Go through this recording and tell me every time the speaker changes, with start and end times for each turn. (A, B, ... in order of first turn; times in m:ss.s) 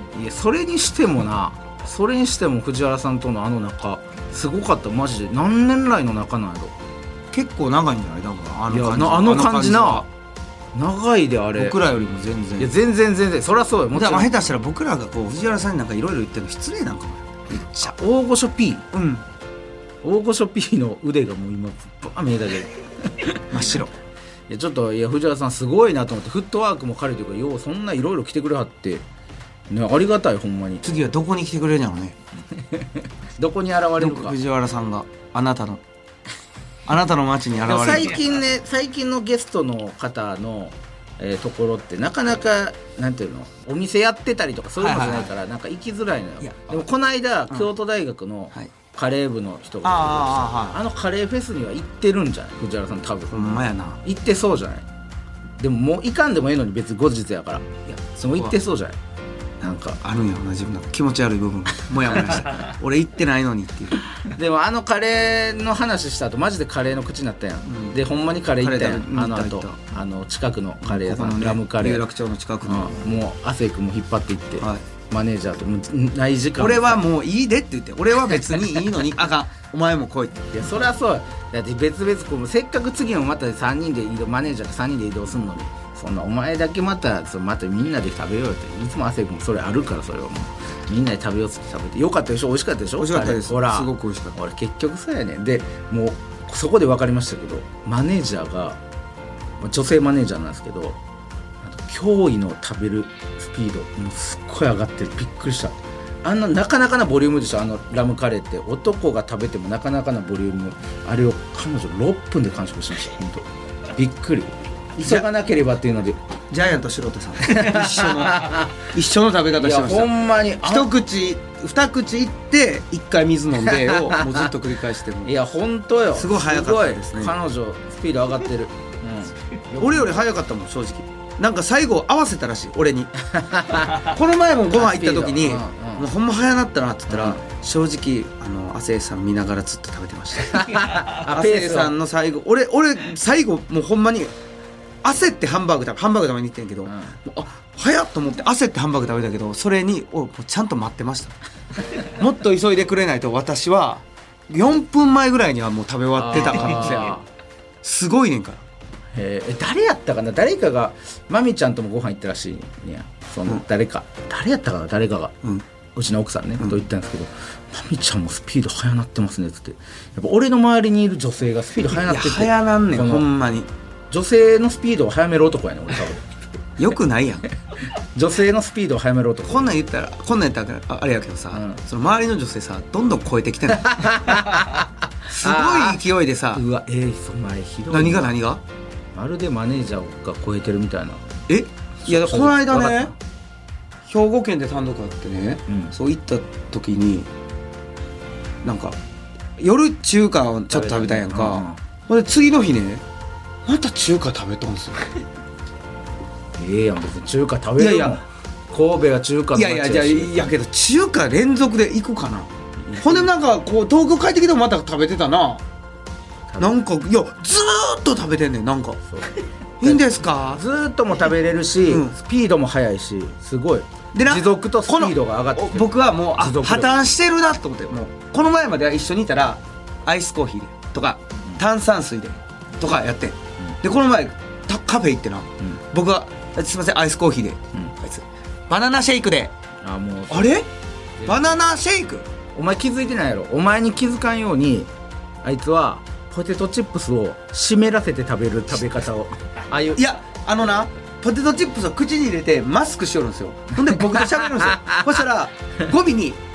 0:00.1-0:06.8 A
0:07.3-0:10.1 B
0:08.7-0:10.1 A
0:10.7-0:11.8 A
0:11.6-0:12.7 B
0:12.6-0:14.3 A
0:13.9-0:17.9 B
0:17.7-0:18.9 A
0:18.9-0:19.2 B
0:20.0-0:23.4 A
0:23.5-0:23.9 B
0:24.5-0:29.0 A
0:29.7-0:30.8 A
0:30.8-0:32.2 B
0:32.6-0:34.4 A
0:34.0-0:35.8 B
0:36.9-0:38.2 B
0:37.6-0:54.9 A
0:44.8-0:45.3 B
0:46.4-0:46.8 B
0:49.8-0:50.8 B
0:53.3-0:54.0 B
0:55.6-0:59.0 A
0:57.9-0:58.6 B
0:59.6-1:00.0 A
1:00.0-1:04.0 B
1:04.3-1:12.0 A
1:07.7-1:08.0 B
1:08.6-1:09.8 B
1:10.8-1:13.0 B
1:12.6-1:17.0 A
1:16.6-1:20.5 B
1:20.5-1:38.8 A
1:33.0-1:34.4 B
1:39.6-1:41.0 A
1:41.6-1:56.2 A
1:56.5-2:05.3 B
1:57.4-1:58.7 A
1:59.6-2:00.9 A
2:03.7-2:04.5 A
2:05.2-2:10.1 A
2:06.1-2:07.3 B
2:09.8-2:13.1 B
2:13.2-2:14.1 A
2:13.9-2:24.3 B
2:14.7-2:16.1 A
2:17.1-2:17.4 A
2:20.5-2:21.9 A
2:25.0-2:31.4 B
2:26.9-2:27.2 A
2:32.0-2:37.2 B
2:36.2-2:37.2 A
2:37.8-2:38.6 B
2:39.1-2:45.4 A
2:46.0-2:53.3 A
2:52.0-2:53.7 B
2:54.1-2:56.2 A
2:56.8-2:57.5 B
2:58.2-2:59.8 A
2:59.5-3:06.6 B
3:01.5-3:01.8 A
3:03.7-3:06.0 A
3:06.5-3:08.4 A
3:07.9-3:08.6 B
3:09.2-3:11.3 A
3:11.5-3:13.1 B
3:12.0-3:13.1 A
3:14.1-3:17.3 B
3:18.6-3:19.0 B
3:19.6-3:23.0 B
3:20.7-3:21.8 A
3:23.7-3:25.2 B
3:26.6-3:30.5 A
3:27.8-3:28.2 B
3:29.5-3:35.6 B
3:32.8-3:33.3 A
3:36.5-3:36.7 A
3:36.6-3:39.0 B
3:39.8-3:40.6 B
3:39.8-3:46.9 A
3:41.9-3:42.1 B
3:44.1-3:59.5 B
3:59.8-4:00.6 A
4:00.3-4:00.7 B
4:01.2-4:01.6 A
4:01.3-4:02.3 B
4:02.5-4:04.9 A
4:05.4-4:10.1 A
4:10.0-4:16.4 B
4:14.2-4:15.0 A